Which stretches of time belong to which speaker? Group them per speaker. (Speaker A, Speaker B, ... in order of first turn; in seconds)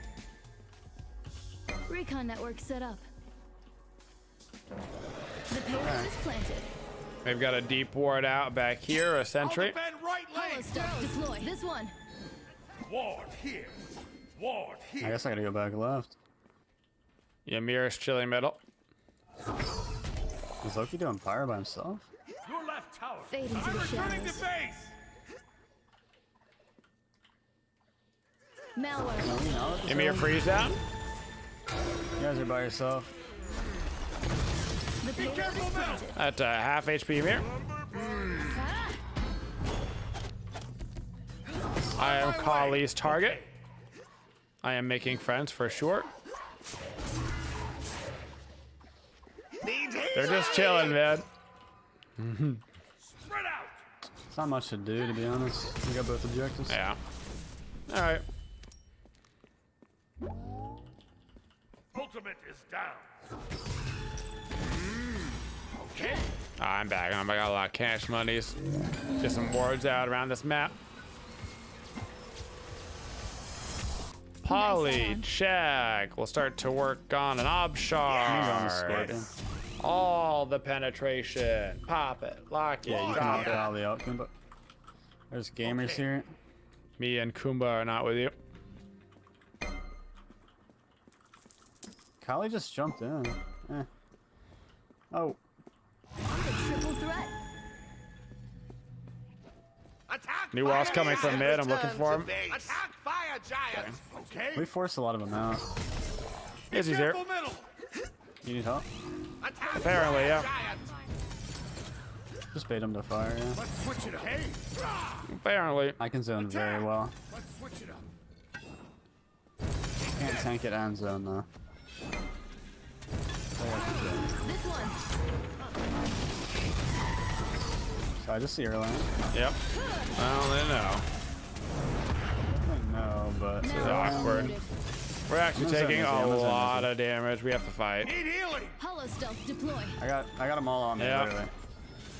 Speaker A: 1.9-3.0, 5.5-6.7, 10.3-11.9, 23.3-24.5, 28.7-29.5, 35.0-36.2, 38.5-39.0, 66.0-66.3, 74.5-75.3, 96.3-97.3, 101.0-101.5, 123.7-125.0, 133.6-134.7, 138.8-140.0
Speaker B: 5.8-6.1, 15.0-16.2, 20.6-22.1, 29.2-30.6, 32.2-33.1, 54.3-56.8, 78.3-79.3, 82.8-84.3, 85.3-86.3, 92.2-93.9, 95.1-95.4, 104.5-105.6, 108.4-108.8, 112.5-113.6, 116.0-117.1, 120.0-121.5, 123.5-124.3, 128.2-129.1, 132.4-134.6, 135.5-136.9, 140.0-141.5
Speaker C: 7.2-9.8, 17.4-18.6, 29.9-30.8, 36.1-37.5, 42.0-43.4, 44.6-46.1, 50.1-51.3, 52.2-52.6, 56.7-57.0, 57.9-58.2, 66.6-68.6, 69.2-70.8, 74.4-79.1, 79.8-83.7, 87.0-88.3, 100.5-102.3, 103.7-104.0, 106.7-107.2, 109.8-110.5, 115.2-116.0, 129.3-129.6, 130.2-131.1, 133.7-134.5, 135.3-138.1, 141.0-141.3
Speaker D: 9.4-11.1, 12.8-15.2, 22.4-24.9, 35.1-36.1, 41.9-43.5, 53.0-53.8, 61.9-63.1, 65.8-66.2, 85.6-86.0, 106.7-107.7, 113.5-114.3, 117.3-118.0
Speaker E: 49.6-51.0, 78.0-79.4, 82.9-83.7, 100.1-104.6, 109.4-110.9, 113.7-114.7, 138.0-138.8